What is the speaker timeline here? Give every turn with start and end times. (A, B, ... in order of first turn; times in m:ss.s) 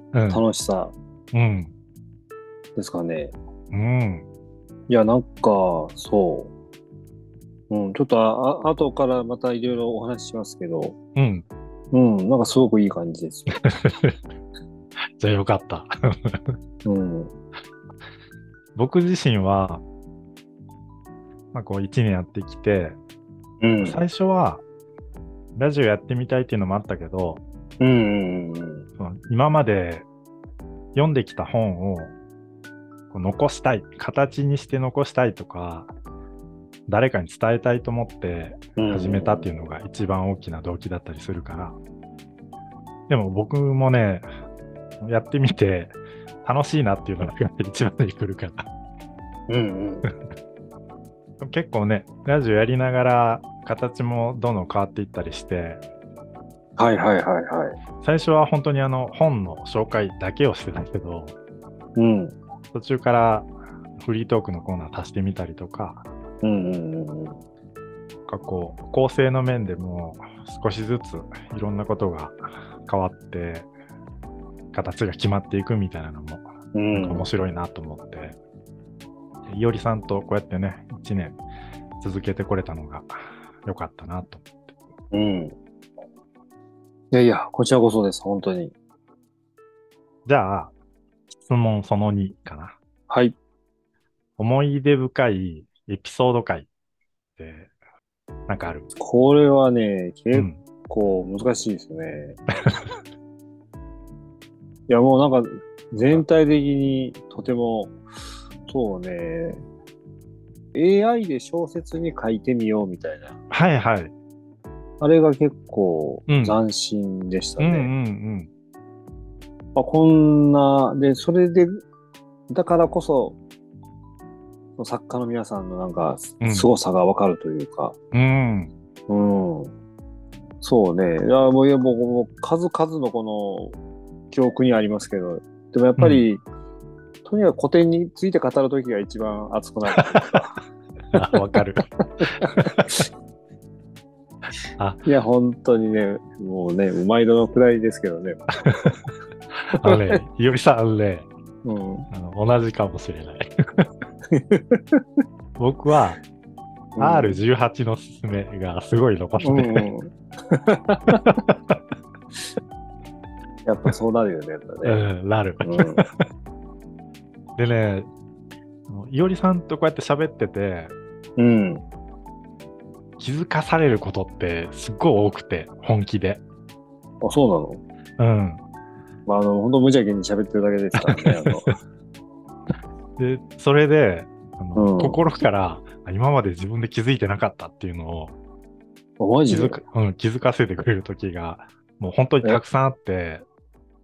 0:00.1-0:00.4 A
0:00.3-0:00.9 B
0:01.3-0:01.7 A
0:02.7-0:03.3 B
0:03.7-0:04.2 A
0:04.9-0:06.5 B
0:07.7-0:11.0 B
0:11.2-0:11.4 A
0:11.9-0:13.6 B
0:13.6-0:14.1 A
0:15.2-0:16.5 A
0:16.8-0:17.3 B
0:18.7-0:19.8 A
0:21.5-0:23.0 A
0:23.6-0:24.0 B
0:23.8-0:24.6 A
0:25.6-0:27.4 A
0:27.8-0:28.9 B
0:29.0-0:30.1 A
0:30.9-0:32.1 A
0:33.1-0:35.9 A
0:36.9-0:41.8 A
0:38.8-0:39.5 B
0:43.1-0:44.3 A
0:45.0-0:48.7 A
0:49.5-0:50.1 B
0:51.4-0:55.8 A
0:56.8-0:57.8 B
0:58.0-1:01.3 A
1:02.0-1:02.4 B
1:02.7-1:06.0 A
1:06.4-1:07.4 B
1:08.3-1:13.7 A
1:14.7-1:18.4 A
1:16.7-1:17.3 B
1:19.5-1:21.4 A
1:22.0-1:24.7 A
1:25.1-1:25.6 B
1:27.1-1:28.7 B
1:30.2-1:30.7 A
1:31.4-1:32.8 A
1:33.1-1:33.4 B
1:34.4-1:36.7 A
1:37.4-1:37.7 A
1:38.5-1:38.9 A
1:39.0-1:42.4 B
1:40.3-1:40.6 A
1:44.9-1:48.0 B
1:46.0-1:46.2 A
1:48.7-1:49.6 B
1:50.7-1:53.4 B
1:53.5-1:54.1 A
1:55.0-1:57.9 B
1:56.3-1:56.6 A
1:57.6-1:58.5 A
1:59.7-2:01.8 B
2:02.5-2:03.4 B
2:04.8-2:08.0 B
2:06.4-2:06.7 A
2:08.1-2:08.7 A
2:09.1-2:09.7 B
2:10.6-2:13.8 B
2:14.3-2:16.4 B
2:16.0-2:16.2 A
2:17.2-2:20.6 B
2:21.1-2:22.9 A
2:22.2-2:22.6 B
2:24.8-2:25.0 A
2:25.0-2:28.4 B
2:28.6-2:29.0 A
2:29.7-2:31.3 A
2:29.8-2:30.2 B
2:31.6-2:32.1 B
2:32.1-2:33.9 A
2:34.3-2:35.0 B
2:35.6-2:36.2 A
2:36.9-2:37.4 B
2:37.0-2:39.9 A
2:39.4-2:41.2 B
2:41.2-2:41.5 A
2:43.6-2:45.0 B
2:44.8-2:46.2 A
2:45.6-2:46.1 B
2:47.6-2:48.1 A
2:48.9-2:50.9 A
2:51.4-2:51.8 B
2:53.2-2:56.4 A
2:57.2-2:57.8 B
2:58.2-2:58.6 A
2:59.2-3:01.7 B
3:01.0-3:01.7 A
3:03.2-3:08.3 A
3:04.8-3:05.2 B
3:09.2-3:09.8 B
3:09.5-3:13.4 A